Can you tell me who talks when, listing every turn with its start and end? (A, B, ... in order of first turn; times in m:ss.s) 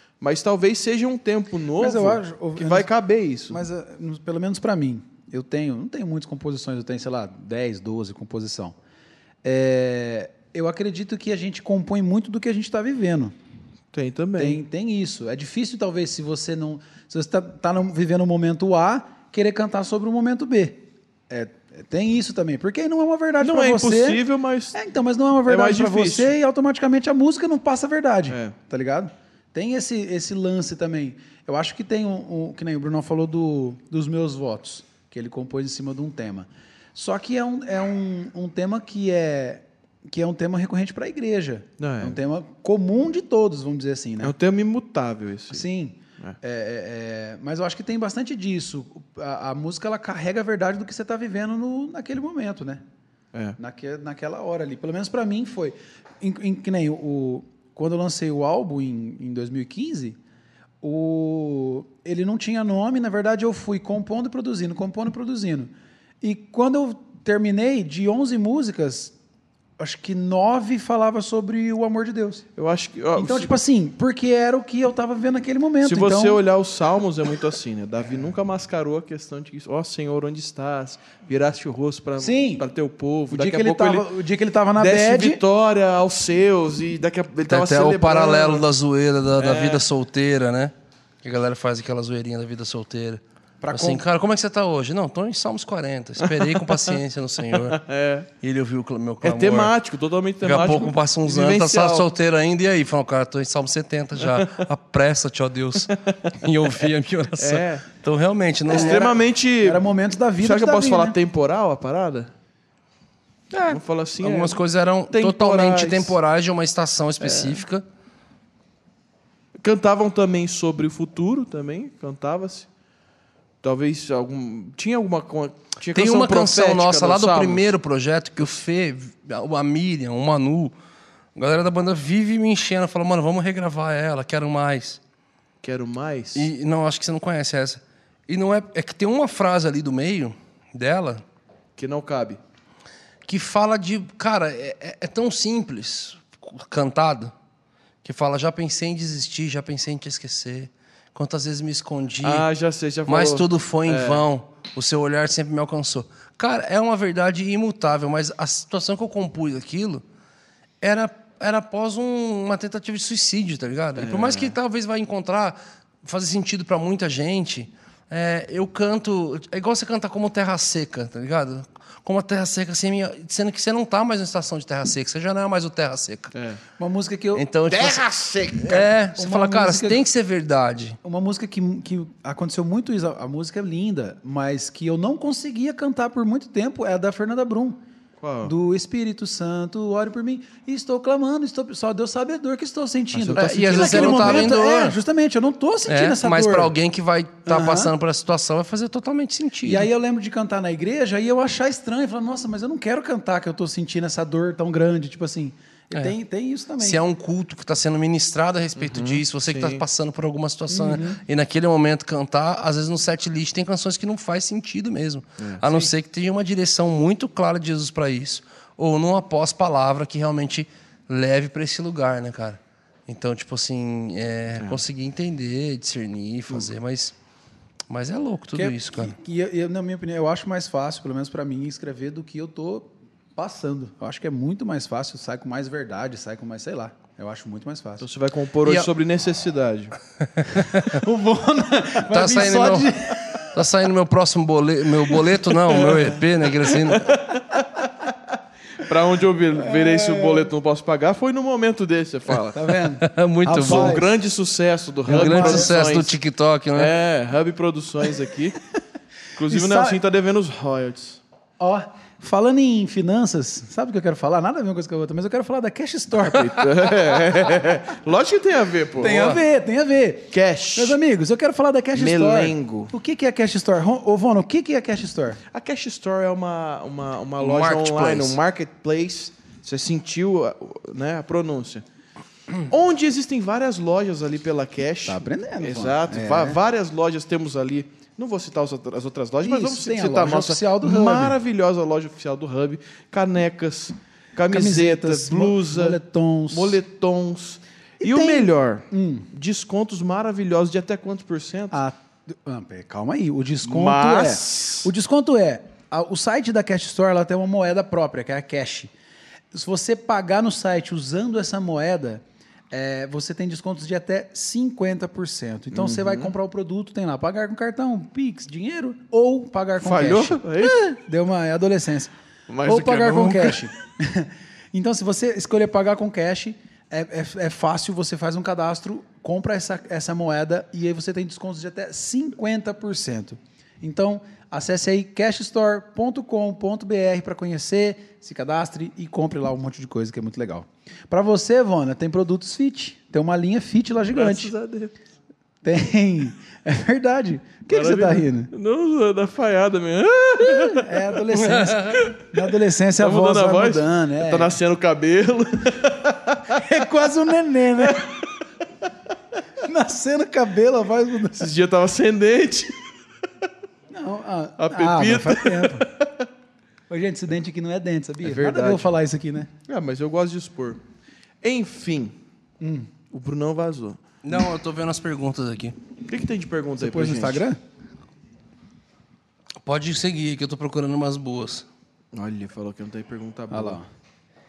0:00.2-0:03.6 A
0:01.8-0:02.9 B
0:03.5-0:08.8 B
0:09.4-0:13.4 B
0:13.9-0:14.6 A
0:14.4-0:24.2 B
0:23.4-0:24.8 A
0:24.7-0:44.3 B
0:25.5-0:26.3 A
0:28.3-0:28.5 A
0:41.8-0:42.2 A
0:44.2-0:45.6 A
0:45.5-0:52.8 B
0:53.6-1:00.2 B
1:00.8-1:09.2 B
1:09.8-1:12.4 B
1:12.6-1:13.6 A
1:13.2-1:16.4 B
1:15.8-1:24.1 A
1:22.2-1:22.7 B
1:23.3-1:25.4 B
1:24.8-1:28.7 A
1:27.5-1:37.8 C
1:29.4-1:29.8 A
1:33.6-1:34.0 B
1:36.2-1:37.0 A
1:37.5-1:38.3 A
1:38.4-1:39.7 C
1:39.2-1:42.1 A
1:40.4-1:49.1 C
1:44.2-1:44.7 A
1:45.9-1:47.8 A
1:48.7-1:49.9 A
1:48.7-1:51.2 B
1:50.4-1:52.3 A
1:53.6-1:54.6 A
1:53.6-1:57.8 C
1:55.1-1:56.2 A
1:57.2-1:57.6 A
1:59.6-2:02.7 A
2:03.6-2:07.7 A
2:05.9-2:10.7 C
2:11.4-2:15.0 C
2:15.6-2:16.5 A
2:16.4-2:21.2 C
2:21.8-2:22.4 A
2:23.3-2:27.3 C
2:28.0-2:32.4 C
2:32.2-2:34.2 A
2:33.1-2:40.0 C
2:40.8-2:56.4 C
2:44.0-2:44.6 A
2:56.3-2:56.6 A
2:56.8-2:57.4 B
2:57.3-2:58.0 C
2:57.7-2:58.9 A
2:58.6-3:01.0 C
2:59.2-3:00.0 B
3:01.0-3:07.8 B
3:08.2-3:08.6 A
3:08.4-3:16.7 B
3:13.1-3:14.5 A
3:13.4-3:15.0 C
3:15.9-3:19.9 C
3:17.5-3:17.9 B
3:19.6-3:27.0 B
3:26.8-3:47.2 C
3:28.8-3:29.8 A
3:30.7-3:31.2 B
3:47.9-3:49.2 C
3:48.5-3:58.1 B
3:58.0-4:00.0 A
4:00.2-4:01.0 C
4:00.6-4:03.5 B
4:02.1-4:02.9 C
4:03.5-4:07.2 C
4:07.0-4:07.8 A
4:08.8-4:12.8 A
4:09.6-4:10.5 B
4:12.5-4:14.1 B
4:13.0-4:14.0 C
4:13.6-4:16.2 A
4:15.1-4:15.8 B
4:15.1-4:16.9 C
4:16.8-4:18.6 A
4:19.3-4:21.2 A
4:19.5-4:20.0 B
4:21.6-4:27.6 B
4:26.3-4:29.3 A
4:29.0-4:35.4 B
4:29.1-4:29.4 C
4:30.3-4:31.0 A
4:32.0-4:32.9 A
4:35.5-4:41.8 A
4:37.4-4:38.4 C
4:42.7-4:56.0 A
4:45.1-4:46.6 B
4:49.4-4:51.4 B
4:54.5-4:56.8 B
4:56.5-5:01.8 A
4:58.0-4:59.3 B
5:01.7-5:08.9 B
5:03.6-5:04.9 A
5:09.5-5:22.1 B
5:15.7-5:16.3 A
5:19.8-5:20.8 A
5:22.5-5:23.7 A
5:22.6-5:44.5 B
5:44.1-5:44.9 A
5:45.6-5:48.5 B
5:47.7-5:51.1 A
5:50.4-5:54.5 B
5:51.4-5:52.2 C
5:53.0-5:56.6 A
5:56.5-5:58.1 B
5:57.8-5:58.3 A
5:59.6-6:01.5 B
6:01.4-6:02.8 A
6:03.9-6:05.9 B
6:04.6-6:06.3 A
6:06.9-6:09.5 B
6:08.2-6:08.9 A
6:09.7-6:10.8 A
6:11.4-6:12.2 A
6:12.6-6:12.9 B
6:13.1-6:14.0 A
6:14.2-6:15.8 C
6:16.1-6:17.4 A
6:16.8-6:17.6 B
6:19.6-6:21.7 C
6:22.1-6:23.8 A
6:23.5-6:23.8 B